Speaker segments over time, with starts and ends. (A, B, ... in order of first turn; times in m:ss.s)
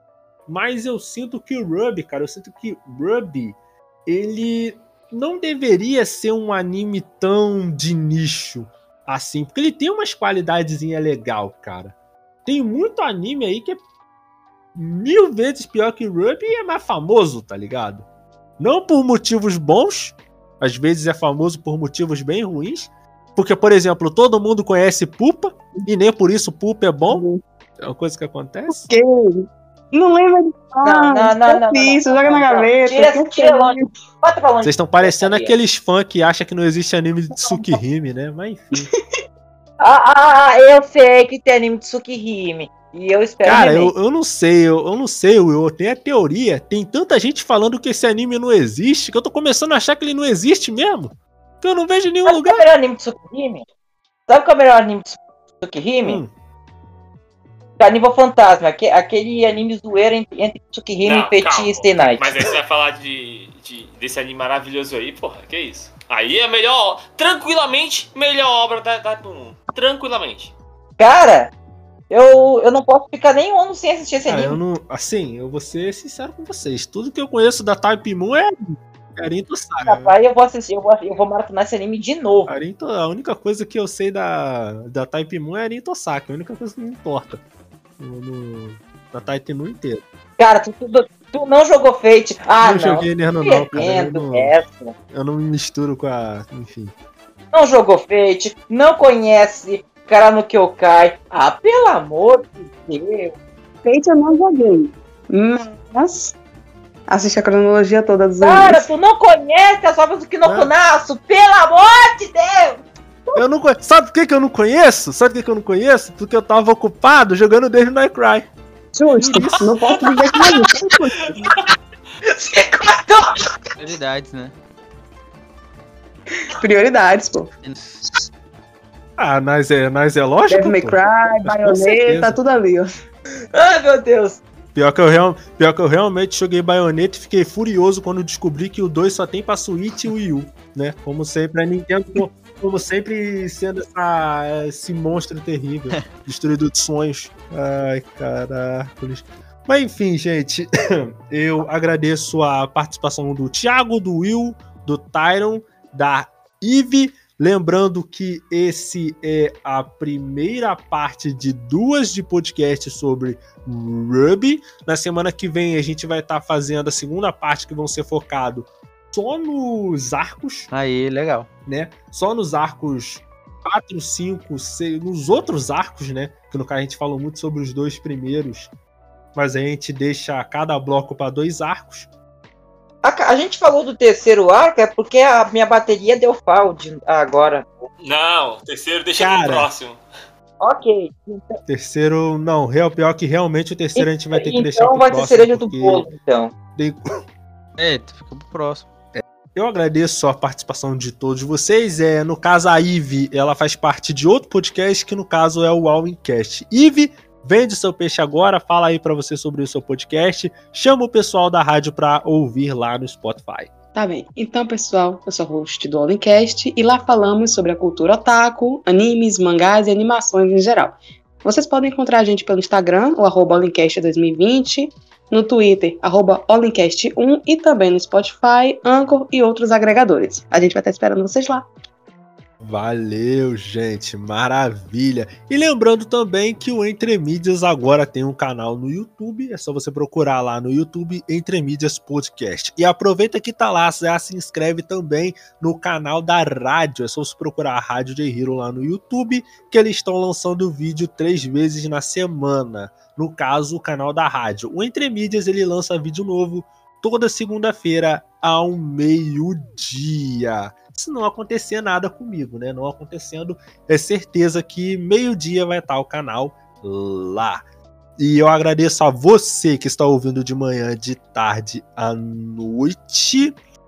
0:00.5-0:11.9 A
0:12.4-0:13.8 A
0:14.7-0:18.1 A
0:18.6-0:27.2 A
0:27.1-0:27.4 B
0:27.8-0:28.9 A
0:28.8-0:34.0 B
0:30.8-0:35.5 C
0:34.6-0:38.9 A
0:37.4-0:37.8 B
0:39.8-0:43.9 C
0:43.4-0:52.7 A
0:52.2-0:53.7 C
0:54.3-0:56.2 C
0:56.0-0:56.3 A
0:57.8-1:02.5 C
1:01.0-1:10.5 D
1:11.0-1:11.5 C
1:12.1-1:14.6 C
1:14.2-1:20.2 A
1:19.8-1:22.5 C
1:22.4-1:27.4 A
1:28.0-1:30.0 A
1:30.4-1:34.9 C
1:32.6-1:34.6 A
1:35.1-1:36.9 A
1:37.5-1:43.4 C
1:43.8-1:46.4 B
1:47.1-1:48.9 B
1:48.4-1:52.8 C
1:50.4-1:50.7 A
1:53.4-1:58.5 A
1:59.0-2:01.4 B
1:59.2-1:59.7 A
1:59.3-2:00.6 D
2:01.2-2:01.6 D
2:02.3-2:03.3 C
2:03.8-2:04.5 E
2:06.5-2:07.5 B
2:07.6-2:08.0 E
2:09.2-2:12.4 A
2:10.5-2:12.9 B
2:13.5-2:14.4 C
2:14.7-2:50.7 A
2:50.7-2:51.5 E
2:51.7-2:58.7 A
2:59.4-3:02.1 A
3:03.0-3:07.7 C
3:08.0-3:10.0 D
3:09.2-3:09.7 A
3:10.6-3:11.6 C
3:11.7-3:16.1 A
3:14.0-3:16.5 C
3:16.7-3:17.0 A
3:17.8-3:18.9 E
3:19.1-3:33.7 A
3:34.0-3:51.7 B
3:52.6-4:27.6 A
4:28.2-4:33.6 A